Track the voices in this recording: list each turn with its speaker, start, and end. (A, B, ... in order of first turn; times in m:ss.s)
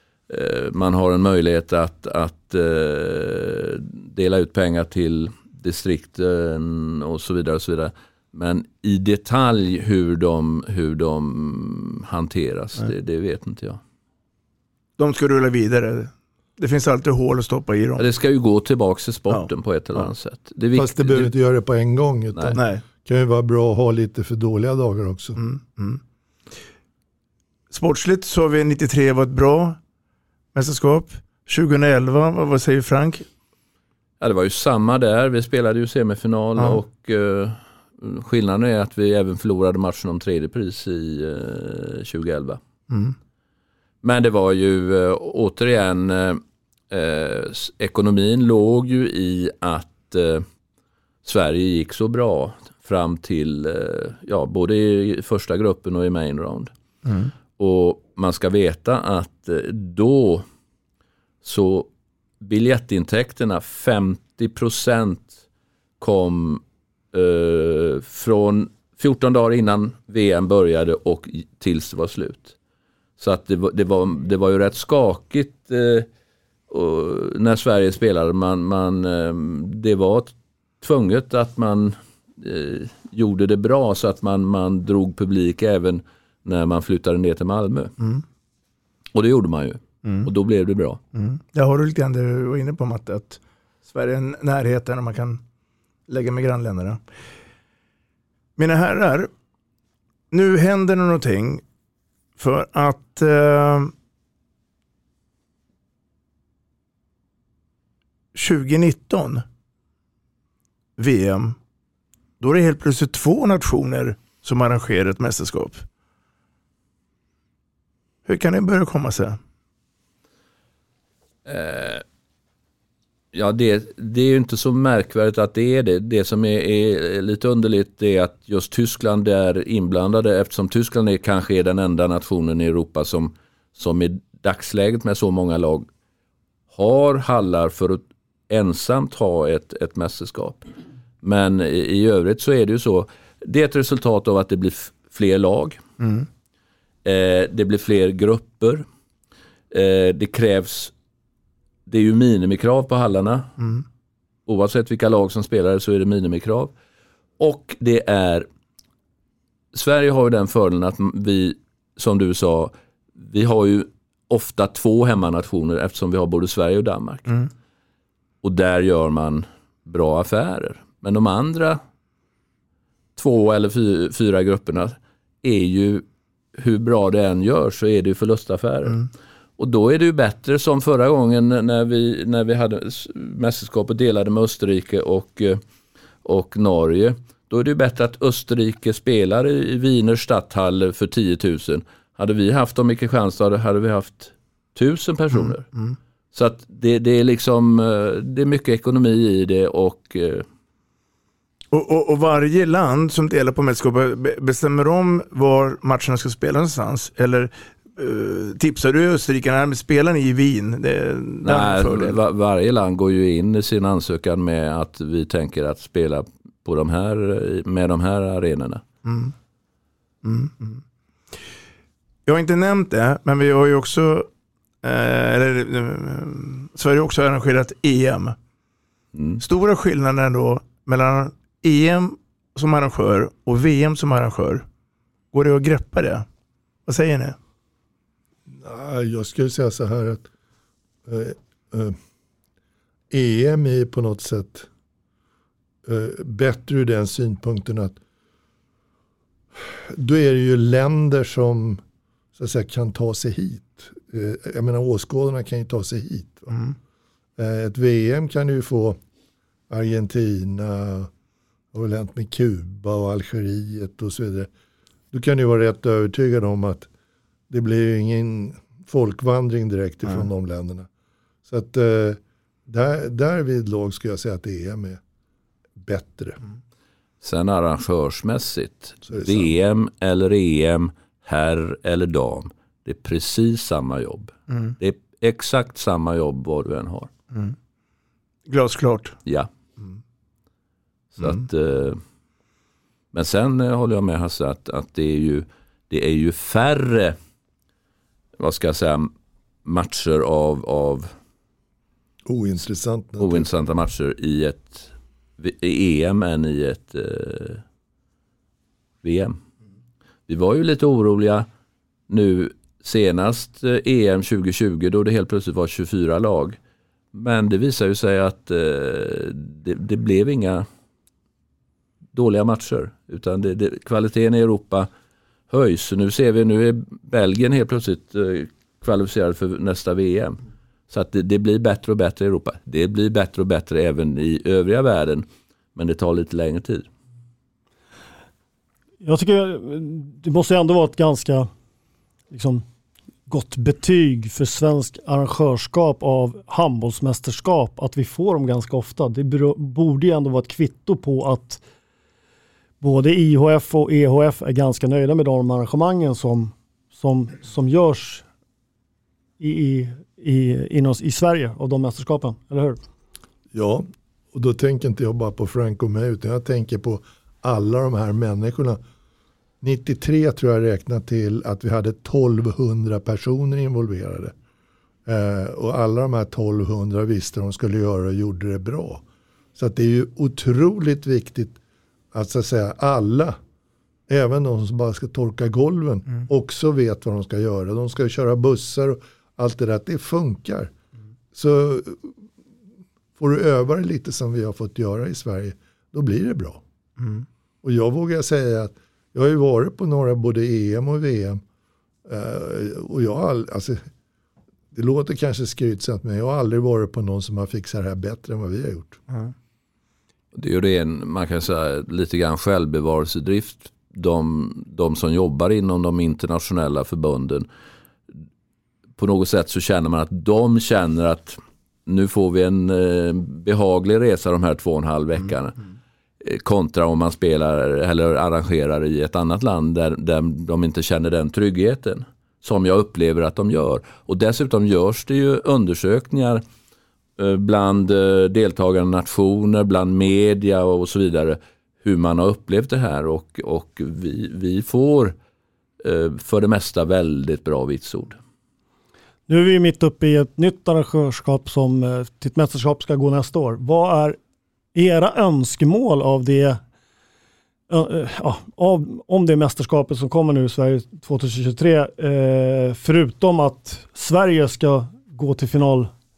0:00.3-0:13.8 A
0:15.0-0:18.0 B
0:18.0-0:21.3 A
0:19.3-0:20.1 B
0:20.7-0:25.4 C
0:22.5-0:22.8 B
0:25.4-0:26.0 B
0:27.7-0:29.8 B
0:30.5-0:33.2 B
0:34.2-0:42.6 A
0:42.9-0:43.1 B
0:44.0-0:50.4 A
0:51.2-0:56.7 A
0:57.0-0:57.3 B
0:57.6-1:00.4 A
1:01.4-1:01.9 A
1:02.4-1:05.4 A
1:06.0-1:12.5 A
1:13.2-1:16.1 A
1:16.7-1:27.9 A
1:29.1-1:31.0 A
1:31.1-1:35.4 B
1:36.1-1:37.0 B
1:38.6-1:39.3 B
1:40.3-1:41.6 B
1:42.4-1:43.9 B
1:48.3-1:49.4 B
1:51.0-1:51.6 B
1:52.4-1:55.8 B
1:58.2-1:59.4 B
2:01.4-2:02.0 A
2:03.3-2:15.9 A
2:16.7-2:20.6 A
2:21.2-2:25.8 A
2:26.0-2:26.3 B
2:27.0-2:28.8 A
2:29.7-2:30.9 A
2:31.9-2:33.5 A
2:33.6-2:33.8 B
2:34.4-2:36.7 A
2:37.4-2:38.5 A
2:39.7-2:47.3 A
2:48.4-2:51.8 A
2:53.2-3:05.6 A
3:06.2-3:15.6 A
3:15.3-3:16.0 B
3:16.3-3:20.4 A
3:21.7-3:32.2 B
3:31.4-3:38.8 A
3:39.0-3:39.3 B
3:40.2-3:40.8 B
3:42.2-3:44.3 B
3:44.8-3:48.4 B
3:49.1-3:49.4 A
3:49.4-3:54.6 B
3:55.3-3:56.2 B
3:56.8-3:57.4 B
3:58.5-4:00.3 C
4:01.0-4:02.0 C
4:03.1-4:04.7 C
4:05.8-4:08.0 C
4:09.6-4:11.8 C
4:12.4-4:16.5 C
4:16.5-4:16.8 B
4:17.4-4:19.0 C
4:19.7-4:21.1 C
4:21.7-4:24.5 C
4:25.1-4:26.9 C
4:27.5-4:30.9 C
4:31.4-4:35.0 C
4:35.8-4:36.4 C
4:37.2-4:47.1 A
4:39.1-4:39.5 C
4:44.5-4:44.7 B
4:47.3-4:47.6 B
4:48.5-4:49.2 B
4:51.1-4:52.0 A
4:51.2-4:51.4 B
4:53.1-4:57.2 A
4:58.4-4:59.1 A
4:59.6-5:01.1 A
5:02.2-5:03.5 C
5:03.2-5:07.6 A
5:09.0-5:09.4 A
5:10.3-5:11.5 A
5:12.1-5:16.6 A
5:17.1-5:20.6 A
5:22.1-5:24.9 A
5:25.5-5:36.9 A
5:39.0-5:41.5 D
5:42.3-5:42.6 D
5:43.3-5:51.6 D
5:52.8-5:58.2 D
5:59.4-6:02.8 D
6:03.5-6:08.8 C
6:09.6-6:14.3 C
6:15.0-6:19.0 C
6:19.6-6:21.6 C
6:22.1-6:23.4 C
6:24.1-6:30.7 C
6:31.3-6:32.1 C
6:33.2-6:36.6 C
6:37.0-6:37.2 B
6:37.6-6:41.4 C
6:42.0-6:43.8 C
6:44.7-6:49.0 C
6:50.3-6:57.5 A
6:59.0-7:05.6 A
7:06.2-7:16.4 A
7:17.2-7:25.1 A
7:25.8-7:28.2 A
7:29.3-7:34.2 D
7:34.7-7:36.6 D
7:37.7-7:45.9 D